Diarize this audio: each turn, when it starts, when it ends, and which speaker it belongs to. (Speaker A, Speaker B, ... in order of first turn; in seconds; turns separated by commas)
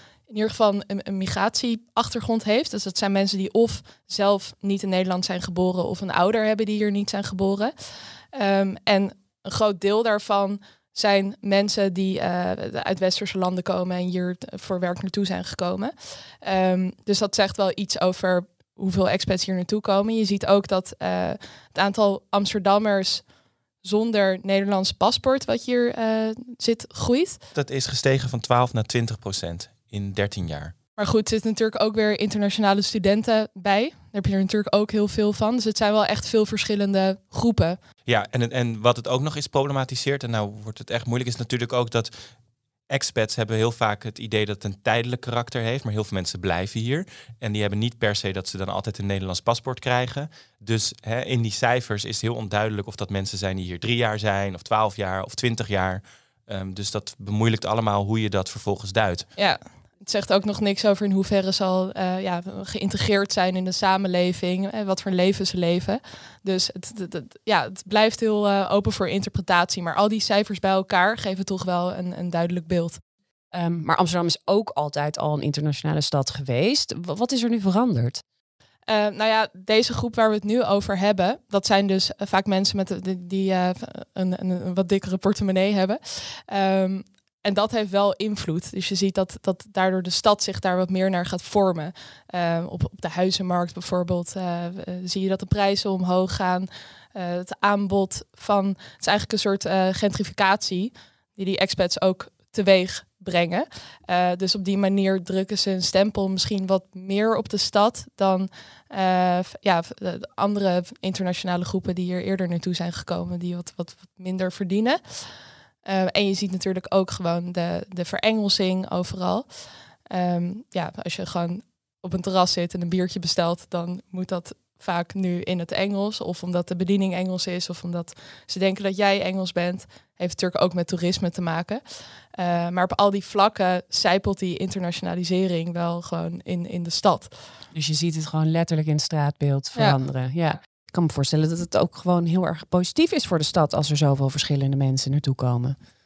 Speaker A: 0.3-7.7, Speaker A: 8.3-23.2, Speaker A: 23.8-27.4, Speaker B: 27.5-30.7, Speaker A: 31.0-37.8, Speaker B: 38.0-42.1, Speaker B: 42.9-59.3, Speaker A: 59.4-73.0, Speaker C: 73.5-78.2, Speaker A: 78.9-115.3, Speaker A: 115.8-119.5, Speaker A: 120.1-131.8, Speaker A: 132.3-137.3, Speaker C: 137.7-145.8